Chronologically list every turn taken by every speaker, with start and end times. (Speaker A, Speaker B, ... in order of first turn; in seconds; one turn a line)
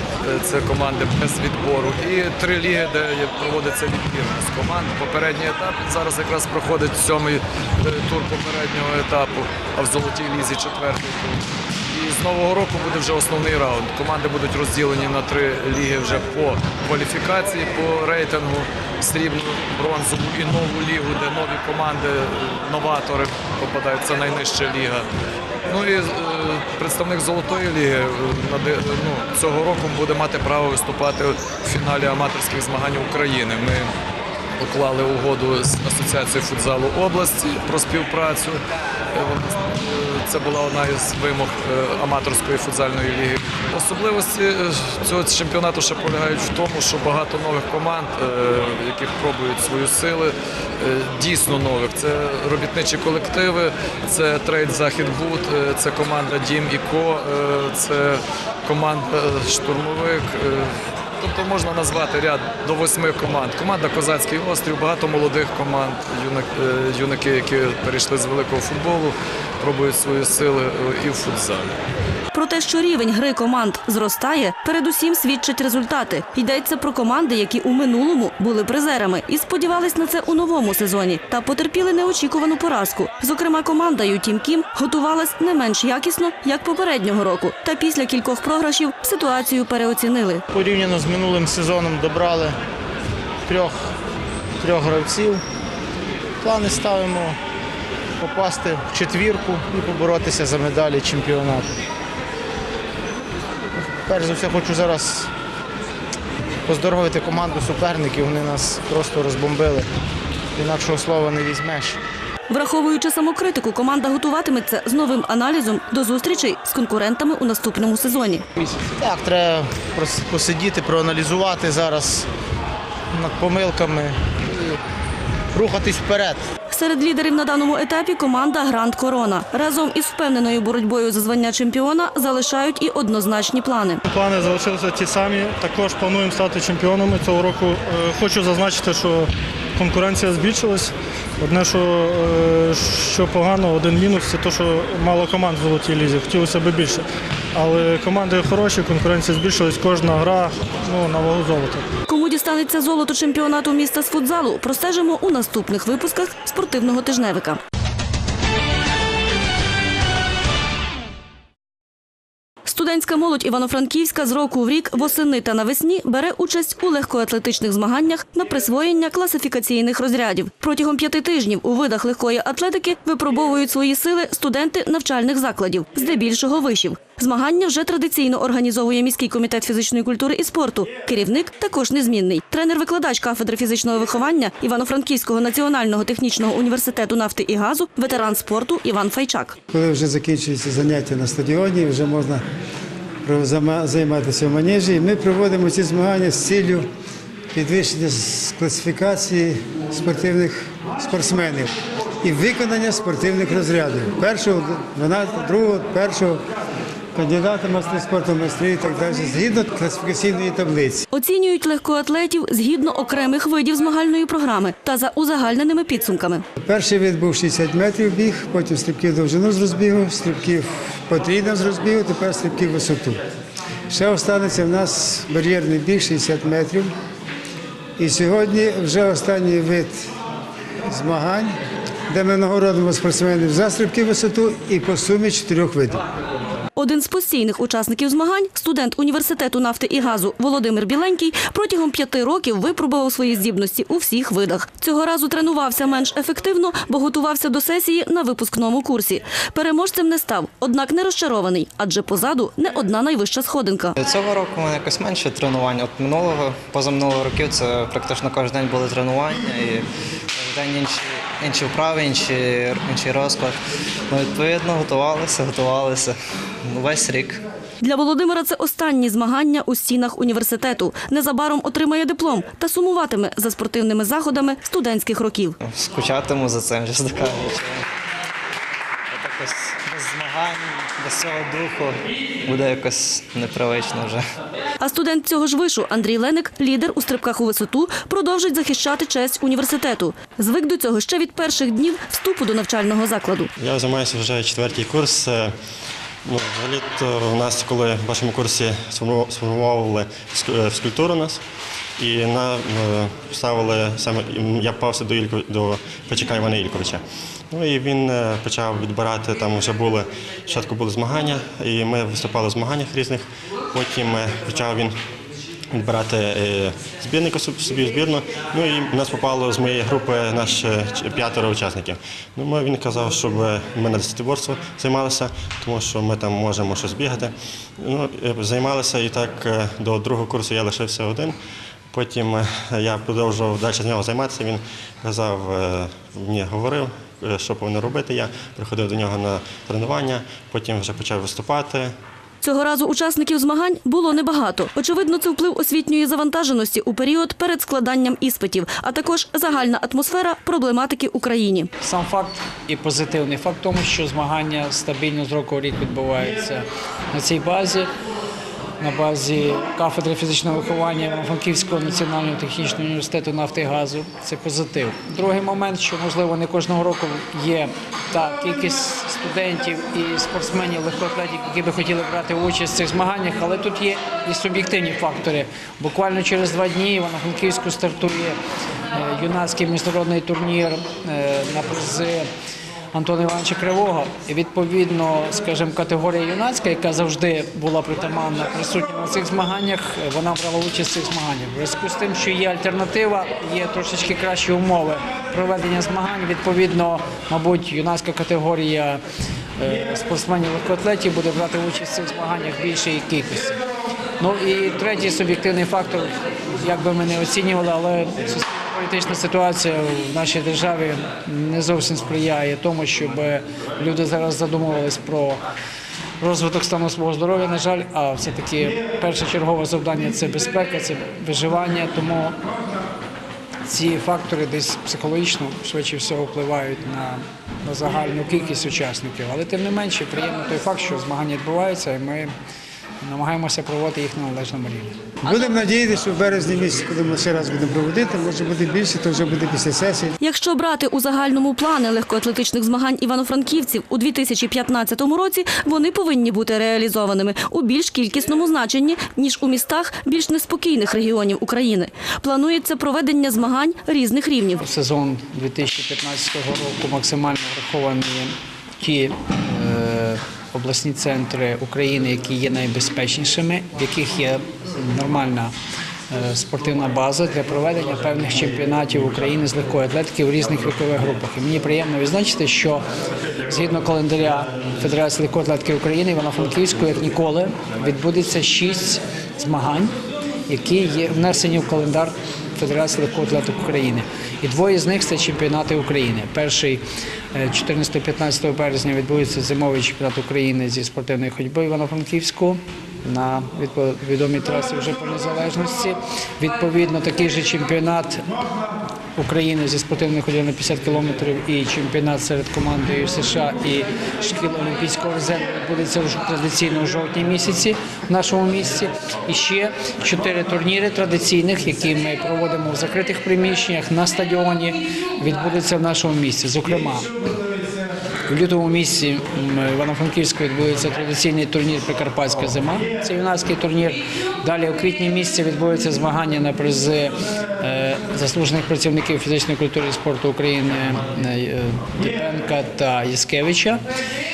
Speaker A: 0.2-25.1
Speaker A: 25.7-33.9
Speaker A: 34.6-38.6
Speaker A: 39.1-71.7
Speaker B: 72.3-90.4
Speaker C: 90.5-92.5
Speaker C: 93.5-93.9
Speaker C: 94.6-95.4
Speaker C: 96.4-97.4
Speaker C: 98.2-101.7
Speaker C: 103.7-105.3
Speaker C: 106.7-109.9
Speaker C: 110.5-112.0
Speaker B: 112.5-118.4
Speaker C: 119.0-122.3
Speaker C: 123.1-124.8
Speaker C: 125.5-126.4
Speaker B: 126.7-134.0
Speaker D: 134.1-147.0
Speaker D: 147.5-151.8
Speaker B: 152.1-157.6
Speaker B: 162.7-189.6
Speaker E: 189.7-192.4
Speaker E: 193.2-196.9
Speaker E: 197.5-201.7
Speaker E: 202.2-206.4
Speaker E: 207.1-211.1
Speaker B: 211.1-216.4
Speaker E: 216.6-223.2
Speaker E: 223.9-226.9
Speaker E: 228.0-230.0
Speaker E: 230.9-231.5
Speaker E: 232.1-236.0
Speaker B: 236.8-254.0
Speaker F: 254.0-259.9
Speaker F: 260.4-263.6
Speaker F: 264.1-267.4
Speaker B: 267.8-275.6
Speaker F: 275.7-277.8
Speaker F: 279.1-284.2
Speaker B: 284.8-293.5
Speaker G: 293.6-295.5
Speaker G: 296.2-301.4
Speaker G: 302.0-314.9
Speaker G: 315.7-331.4
Speaker G: 331.9-341.9
Speaker B: 342.4-351.7
Speaker H: 351.8-357.9
Speaker H: 358.8-378.4
Speaker H: 378.9-382.3
Speaker H: 382.9-399.0
Speaker H: 399.6-403.6
Speaker H: 404.2-415.4
Speaker H: 416.2-422.4
Speaker H: 423.6-432.3
Speaker H: 433.0-434.9
Speaker E: 435.2-440.2
Speaker B: 435.2-435.5
Speaker B: 440.2-454.6
Speaker H: 454.6-465.5
Speaker H: 466.1-472.8
Speaker H: 473.4-479.9
Speaker H: 480.5-486.8
Speaker H: 487.3-498.3
Speaker H: 499.1-517.1
Speaker H: 518.2-533.8